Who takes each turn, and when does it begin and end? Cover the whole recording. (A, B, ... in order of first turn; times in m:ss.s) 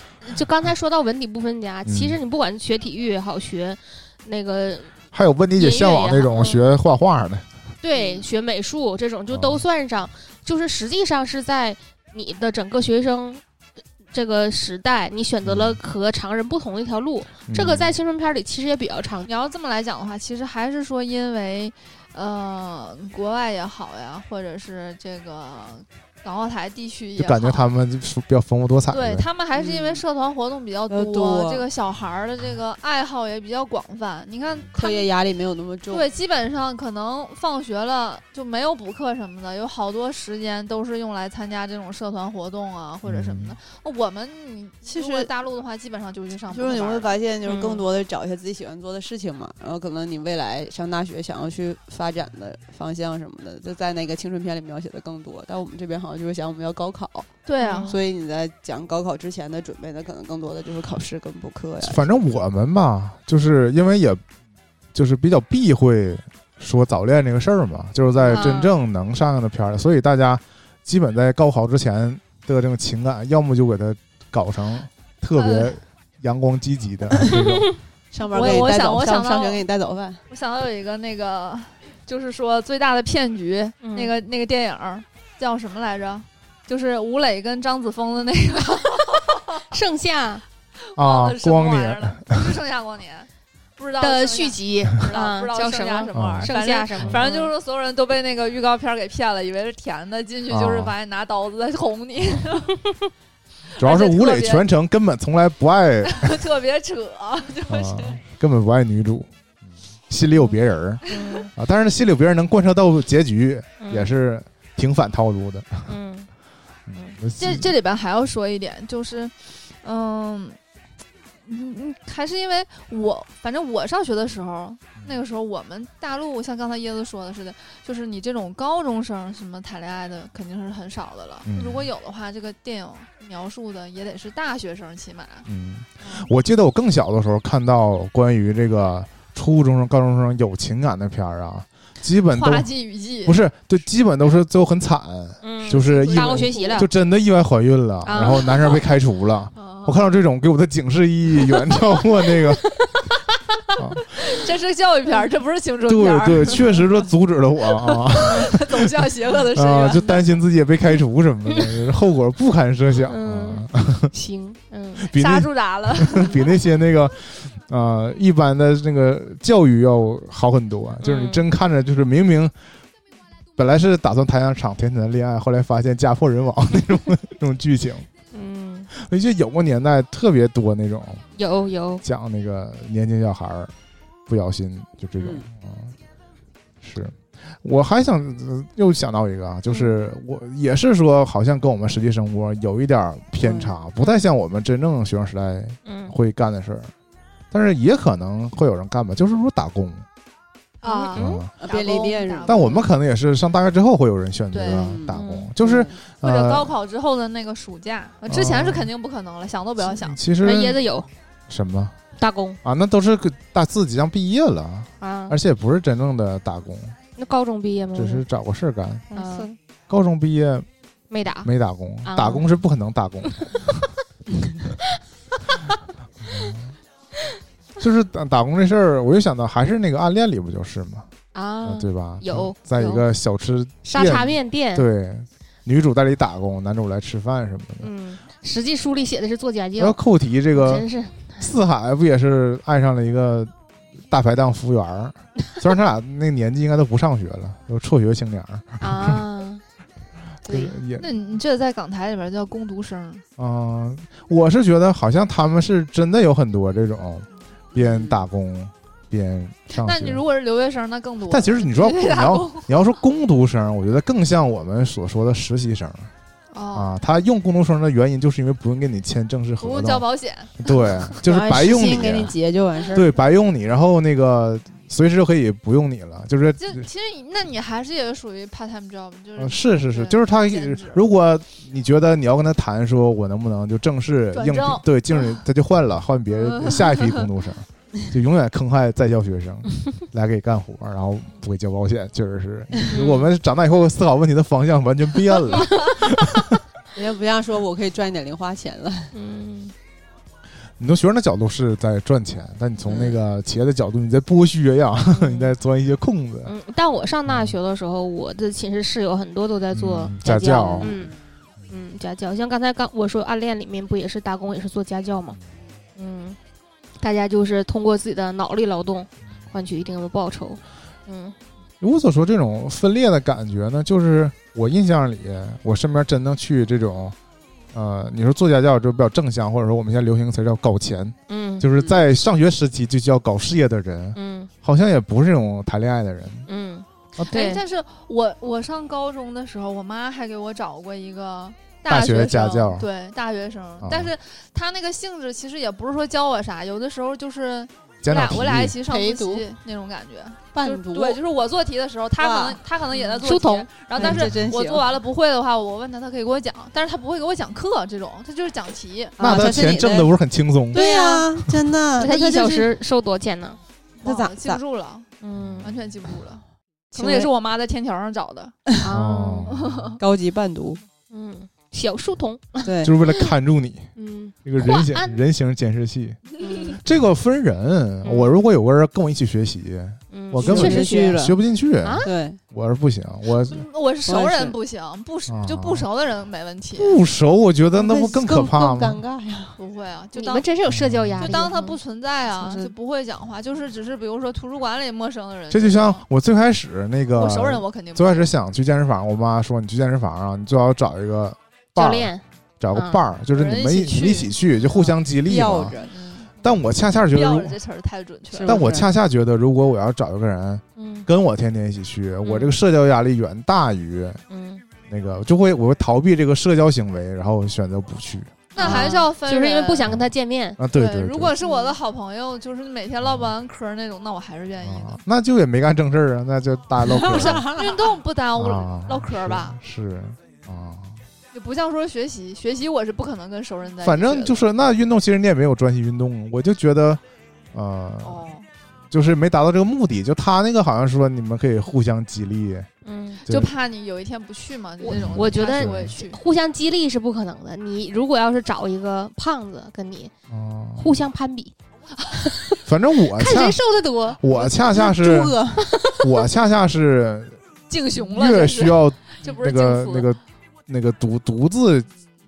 0:00.2-0:04.9 A
0:01.9-0:02.2 B
0:05.1-0:07.4 B
0:05.6-0:06.7 A
0:07.8-0:13.4 A
0:09.3-0:09.6 B
0:14.1-0:19.3 A
0:15.4-0:15.8 B
0:17.5-0:17.9 B
0:19.3-0:27.7 C
0:27.2-0:29.3 B
0:28.9-0:35.1 C
0:29.5-0:30.0 D
0:30.9-0:31.7 D
0:34.8-0:36.1 D
0:35.9-0:47.2 C
0:43.0-0:43.6 B
0:44.9-0:45.3 D
0:46.5-0:57.3 D
0:47.4-0:47.8 A
0:57.5-0:58.0 C
0:57.6-0:58.0 A
0:57.9-1:02.1 D
1:01.8-1:04.2 B
1:04.9-1:17.7 B
1:08.2-1:08.8 A
1:15.4-1:15.8 C
1:17.2-1:17.5 D
1:18.1-1:20.2 D
1:18.2-1:19.6 C
1:20.3-1:29.7 C
1:23.8-1:24.1 A
1:29.7-1:30.4 A
1:30.9-1:42.8 C
1:31.0-1:32.5 B
1:34.0-1:37.5 A
1:36.1-1:36.5 B
1:37.0-1:37.3 B
1:40.5-1:40.9 B
1:43.8-1:44.7 C
1:43.8-1:46.4 B
1:46.1-1:48.2 C
1:47.7-1:49.3 B
1:50.1-1:55.9 B
1:51.1-1:51.5 A
1:53.8-1:54.1 A
1:55.9-1:56.3 A
1:56.9-1:57.7 B
1:57.4-2:00.6 C
2:01.5-2:15.5 C
2:11.5-2:11.9 B
2:15.5-2:22.7 B
2:16.0-2:16.3 C
2:22.3-2:23.4 C
2:23.2-2:32.6 B
2:25.4-2:26.9 A
2:25.7-2:26.8 C
2:28.0-2:28.8 A
2:29.6-2:30.0 C
2:32.6-2:33.0 A
2:33.8-2:34.0 B
2:34.2-2:37.1 C
2:35.9-2:39.0 B
2:37.8-2:40.4 C
2:39.5-2:44.1 B
2:43.1-2:45.1 A
2:45.0-2:52.5 B
2:45.1-2:46.6 C
2:51.0-2:51.5 A
2:53.6-2:58.1 B
2:58.3-2:58.9 A
2:58.9-3:01.2 B
3:01.4-3:02.0 A
3:02.0-3:03.7 B
3:04.3-3:05.9 B
3:05.2-3:05.5 D
3:06.8-3:16.9 B
3:09.7-3:09.9 A
3:13.4-3:13.7 D
3:15.8-3:16.1 A
3:17.5-3:20.0 B
3:20.8-3:22.9 C
3:20.8-3:21.4 A
3:21.2-3:21.5 B
3:21.6-3:22.6 D
3:22.4-3:26.7 B
3:24.5-3:25.0 C
3:24.7-3:26.0 D
3:25.1-3:25.5 A
3:26.2-3:30.2 C
3:28.3-3:28.9 B
3:29.8-3:30.8 B
3:30.4-3:31.1 A
3:31.5-3:32.0 B
3:32.2-3:32.6 A
3:32.6-3:37.0 B
3:35.0-3:35.4 A
3:37.2-3:38.2 A
3:38.0-3:39.1 B
3:39.1-3:39.5 D
3:39.1-3:39.5 A
3:39.9-3:40.7 B
3:41.1-3:41.5 A
3:41.4-3:43.8 B
3:42.0-3:42.5 A
3:46.2-3:46.7 B
3:47.8-3:51.1 B
3:51.3-3:53.1 A
3:51.6-3:57.9 B
3:53.8-3:54.9 A
3:57.8-4:00.0 A
3:59.8-4:00.9 B
4:00.5-4:01.5 A
4:01.4-4:03.5 B
4:04.1-4:09.2 B
4:08.8-4:09.6 A
4:10.5-4:11.1 B
4:10.5-4:10.7 A
4:11.0-4:13.2 C
4:13.4-4:20.2 B
4:17.8-4:18.3 D
4:19.7-4:22.7 C
4:21.3-4:26.1 B
4:26.5-4:27.0 C
4:26.7-4:30.1 B
4:29.6-4:31.2 C
4:30.6-4:32.4 B
4:31.2-4:33.2 D
4:32.9-4:36.9 B
4:36.6-4:41.1 C
4:39.4-4:56.6 B
4:44.3-4:45.4 C
4:46.3-4:47.3 C
4:52.9-4:53.3 A
4:56.9-4:59.1 D
4:59.1-4:59.7 A
5:00.8-5:06.5 B
5:02.8-5:03.2 D
5:05.1-5:05.5 A
5:06.5-5:11.1 A
5:07.3-5:07.6 B
5:09.7-5:11.1 B
5:10.8-5:11.1 D
5:11.7-5:15.4 A
5:16.0-5:16.4 A
5:17.0-5:21.4 A
5:21.8-5:27.2 B
5:27.7-5:36.5 B
5:31.3-5:31.7 A
5:31.8-5:32.0 D
5:34.2-5:34.5 A
5:36.5-5:37.6 A
5:37.3-5:59.4 C
5:41.9-5:42.9 B
5:43.8-5:44.1 B
5:48.0-5:48.8 B
5:48.9-5:49.5 D
5:50.5-5:51.2 D
5:52.2-5:53.2 D
5:53.2-5:54.3 A
5:54.0-5:54.8 D
5:59.2-6:00.1 D
5:59.2-6:00.8 B
6:00.7-6:02.7 D
6:00.7-6:01.3 A
6:02.0-6:03.6 A
6:04.0-6:05.1 C
6:04.0-6:04.6 D
6:05.2-6:05.7 A
6:05.6-6:08.6 C
6:07.0-6:07.3 D
6:08.8-6:09.5 A
6:08.9-6:09.9 B
6:09.5-6:10.0 C
6:10.0-6:10.8 D
6:11.1-6:13.3 A
6:12.6-6:13.0 D
6:12.8-6:13.9 B
6:14.0-6:15.2 A
6:14.4-6:23.7 B
6:16.4-6:16.8 A
6:18.0-6:18.4 A
6:20.1-6:21.2 A
6:20.4-6:21.4 D
6:21.8-6:22.1 A
6:22.0-6:22.4 D
6:23.4-6:27.0 C
6:24.0-6:24.6 D
6:25.3-6:25.9 B
6:26.8-6:29.0 B
6:27.8-6:29.6 D
6:29.6-6:30.5 C
6:30.2-6:31.8 A
6:30.7-6:31.3 B
6:31.2-6:36.0 C
6:32.3-6:32.7 A
6:35.5-6:45.8 B
6:37.2-6:38.3 C
6:41.8-6:42.2 A
6:42.7-6:43.0 A
6:43.3-6:44.4 C
6:44.8-6:45.9 D
6:45.8-6:46.3 C
6:46.4-6:47.6 B
6:47.0-6:48.6 C
6:48.3-6:48.9 D
6:48.4-6:54.2 B
6:50.8-6:51.1 A
6:52.2-6:52.5 A
6:54.3-6:54.6 A
6:54.9-6:58.9 B
6:58.6-7:00.0 C
6:58.6-7:00.6 A
6:59.9-7:01.4 B
7:00.7-7:05.0 C
7:01.4-7:01.8 A
7:03.0-7:03.3 B
7:04.6-7:07.6 B
7:07.0-7:07.6 D
7:07.1-7:09.6 C
7:08.4-7:11.0 B
7:11.3-7:14.5 C
7:13.8-7:17.0 B
7:17.5-7:18.3 B
7:18.0-7:18.5 C
7:18.9-7:22.7 B
7:22.8-7:23.2 A
7:23.2-7:23.5 B
7:23.3-7:26.2 C
7:24.8-7:30.1 A
7:25.0-7:26.0 B
7:30.3-7:31.0 B
7:30.8-7:31.5 A
7:32.7-7:33.6 B
7:33.1-7:34.2 A
7:34.2-7:35.4 B
7:34.3-7:35.8 D
7:35.7-7:36.0 A
7:35.9-7:37.4 B
7:37.7-7:40.1 C
7:38.0-7:41.9 B